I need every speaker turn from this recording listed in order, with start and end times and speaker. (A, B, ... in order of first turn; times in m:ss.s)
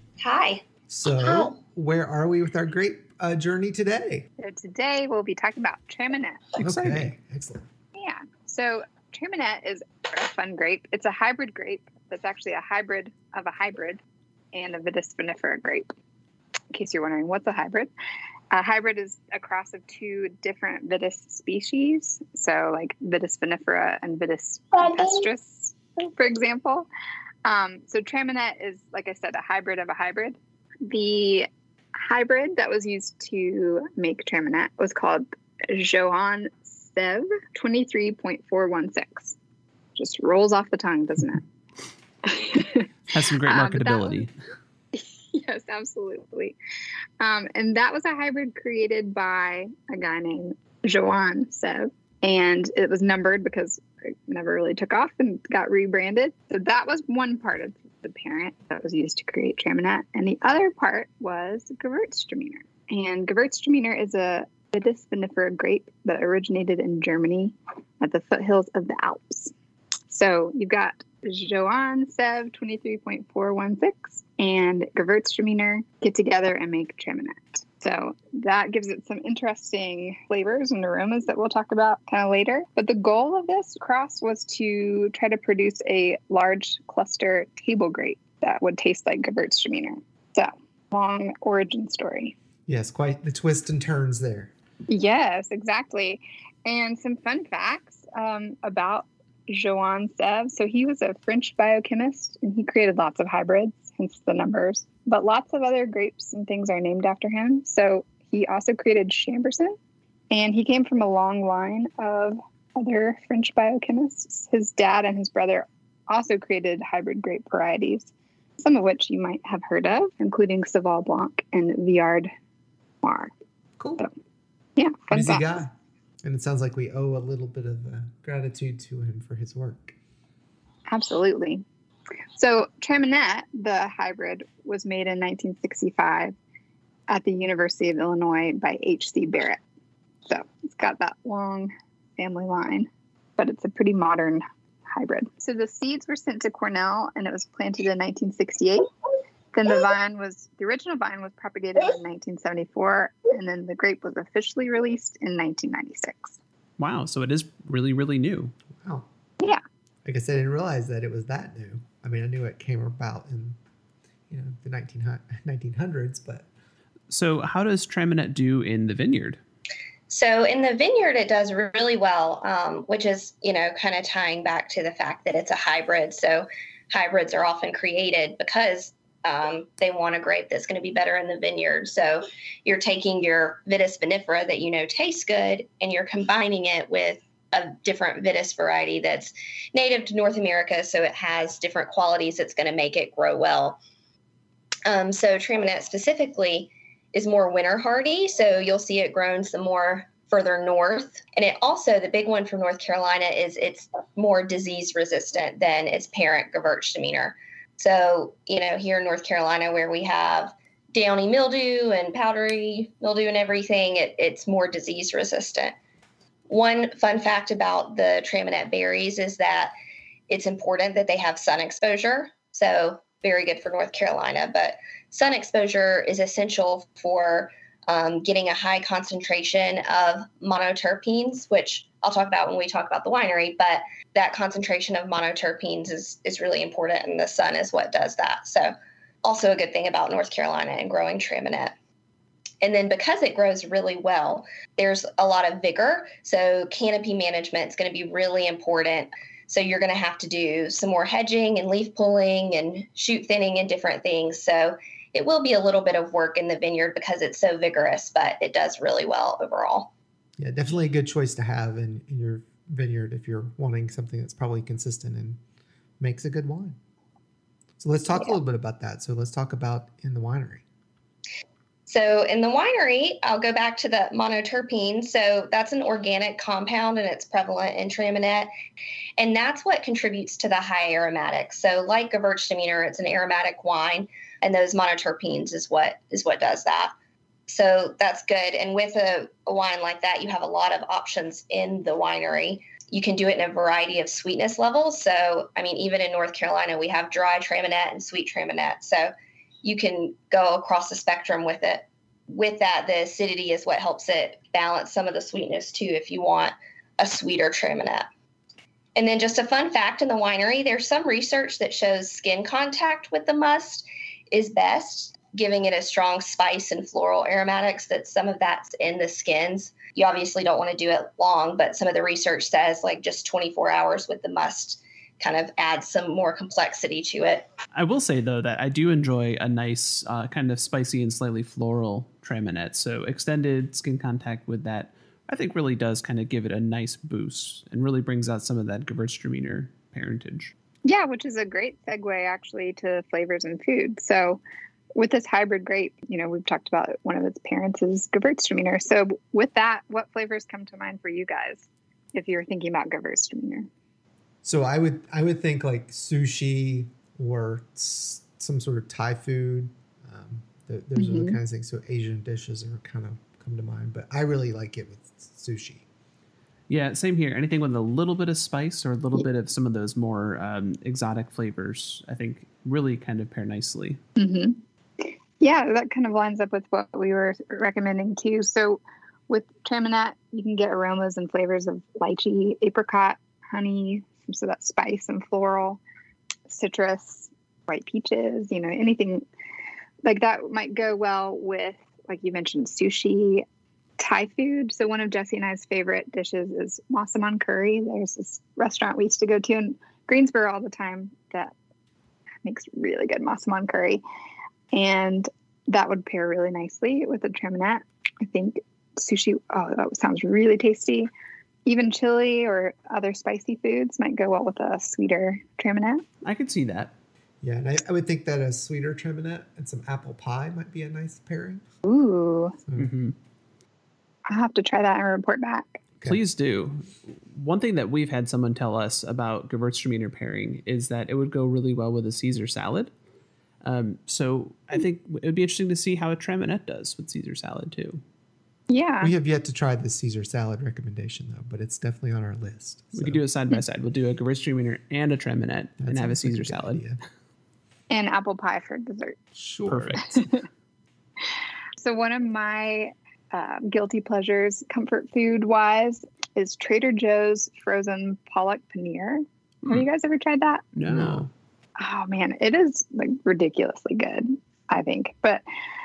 0:00.2-0:00.6 A
0:00.9-0:04.3 B
0:01.2-0:01.5 A
0:04.4-0:06.6 C
0:06.6-0:07.6 B
0:06.6-0:07.1 D
0:08.0-0:14.0 C
0:14.5-0:15.9 C
0:16.7-0:17.9 C
0:18.5-0:26.9 C
0:27.4-0:39.4 C
0:40.0-0:41.4 C
0:42.2-0:44.2 C
0:43.1-0:44.3 D
0:44.9-0:46.6 C
0:47.2-1:09.5 C
1:10.1-1:32.4 C
1:32.7-1:34.5 B
1:34.9-1:49.8 C
1:50.3-2:02.3 C
2:03.0-2:03.3 C
2:04.8-2:05.6 C
2:05.1-2:05.7 B
2:06.2-2:10.0 B
2:10.9-2:11.6 C
2:12.4-2:16.4 C
2:17.1-2:19.6 C
2:20.2-2:28.9 C
2:29.5-2:36.4 C
2:36.8-2:38.5 D
2:38.8-2:39.1 B
2:40.0-2:43.6 B
2:44.3-2:46.5 B
2:47.1-2:49.4 D
2:50.1-3:13.8 A
3:14.9-3:35.8 A
3:36.5-3:39.7 A
3:40.3-4:01.7 A
4:02.6-4:19.9 A
4:20.4-4:25.4 B
4:26.0-4:26.8 B
4:27.8-4:30.6 B
4:31.9-4:38.5 A
4:39.2-4:46.9 A
4:47.5-4:59.1 A
4:59.6-5:08.1 A
5:09.0-5:27.5 A
5:27.7-5:40.5 D
5:40.8-5:44.4 C
5:44.9-5:53.7 C
5:54.4-6:05.8 B
6:01.0-6:01.4 C
6:06.7-6:14.0 D
6:14.2-6:25.8 C
6:26.5-6:29.2 C
6:30.0-6:33.4 C
6:34.0-6:41.5 C
6:42.4-6:44.0 C
6:44.7-6:51.1 C
6:51.6-6:56.0 C
6:56.2-6:56.9 D
6:57.4-7:01.6 B
7:01.8-7:02.6 C
7:02.8-7:03.1 D
7:04.3-7:05.8 C
7:06.0-7:12.9 D
7:13.6-7:18.0 D
7:18.7-7:19.1 C
7:19.0-7:23.2 B
7:22.9-7:27.0 D
7:25.8-7:27.0 B
7:27.9-7:30.4 C
7:29.4-7:30.3 D
7:31.8-7:40.7 C
7:40.8-7:41.3 D
7:40.9-7:41.3 B
7:41.8-7:45.4 C